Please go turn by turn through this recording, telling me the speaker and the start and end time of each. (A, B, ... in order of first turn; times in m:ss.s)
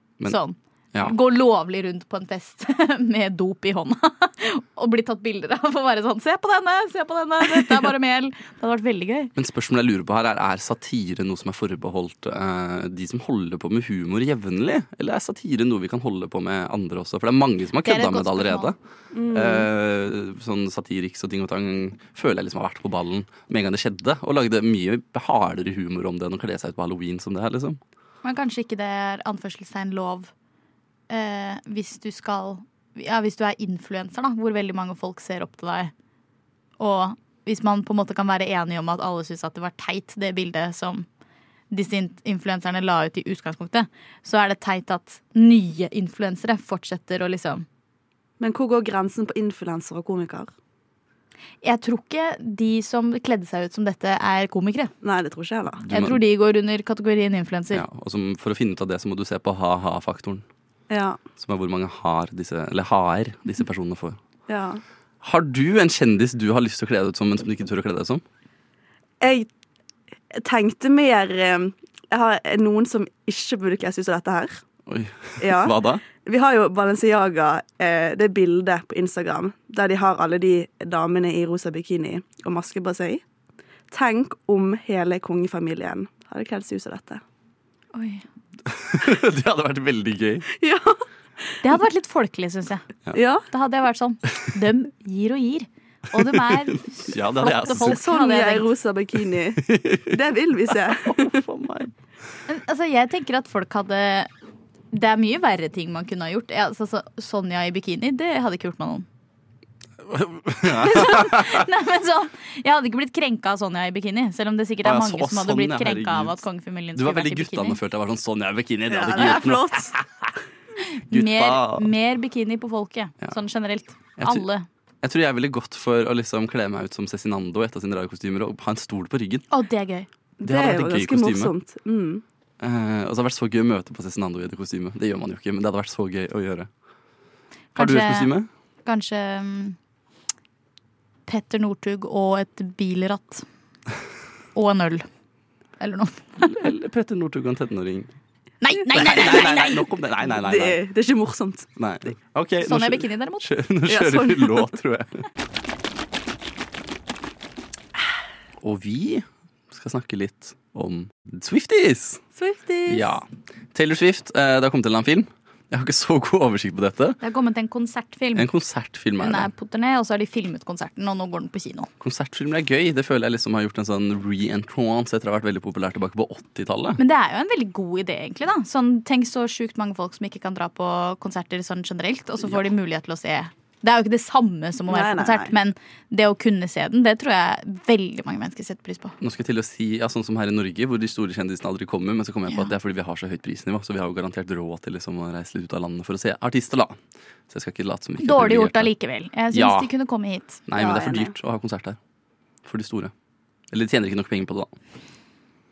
0:00.2-0:09.3 A
0:09.4-0:18.8 B
0:17.8-0:18.7 A
0:19.1-0:19.7 C
0:19.3-0:27.8 B
0:28.2-0:30.3 A
0:31.1-0:35.9 A
0:36.8-0:41.0 A
0:41.7-0:47.6 A
0:48.4-0:50.5 C
0:51.6-0:54.9 A
0:55.0-0:55.8 C
0:55.8-0:56.2 B
0:55.9-0:57.8 A
0:57.7-1:00.4 B
1:00.9-1:01.2 C
1:01.4-1:04.2 B
1:04.5-1:04.8 C
1:05.2-1:08.2 B
1:09.2-1:09.5 C
1:10.3-1:14.6 C
1:14.9-1:16.0 B
1:15.4-1:23.2 C
1:23.9-1:27.2 C
1:27.9-1:28.2 A
1:28.7-1:30.4 B
1:30.6-1:31.0 C
1:31.6-1:32.8 A
1:33.1-1:33.4 C
1:33.5-1:38.7 A
1:36.2-1:38.0 B
1:37.6-1:41.4 C
1:39.6-1:40.2 B
1:40.9-1:41.9 B
1:42.5-1:44.3 A
1:44.9-1:49.0 A
1:50.0-1:51.7 B
1:50.7-1:57.8 A
1:54.8-1:56.4 B
1:56.9-2:00.3 B
1:58.9-1:59.9 C
2:01.0-2:04.6 A
2:01.1-2:01.9 B
2:04.2-2:04.4 B
2:05.0-2:09.4 B
2:09.5-2:10.1 A
2:10.4-2:12.2 C
2:10.4-2:11.5 B
2:12.6-2:16.7 B
2:17.7-2:18.3 A
2:17.8-2:18.5 B
2:18.8-2:19.8 A
2:21.3-2:23.4 A
2:24.5-2:25.1 A
2:25.8-2:26.6 A
2:26.4-2:28.1 B
2:28.6-2:29.8 A
2:28.9-2:30.8 B
2:30.3-2:31.7 C
2:31.8-2:35.2 B
2:32.6-2:33.5 A
2:33.9-2:34.7 C
2:38.6-2:42.2 B
2:42.4-2:43.1 C
2:42.9-2:47.2 B
2:47.2-2:48.5 A
2:48.3-2:49.5 B
2:49.2-2:51.9 A
2:52.0-2:57.0 B
2:57.0-3:09.2 A
3:04.9-3:05.5 C
3:09.2-3:18.9 B
3:18.2-3:20.6 A
3:19.5-3:19.9 B
3:20.7-3:22.0 B
3:20.8-3:21.3 C
3:22.6-3:23.1 B
3:23.7-3:24.7 B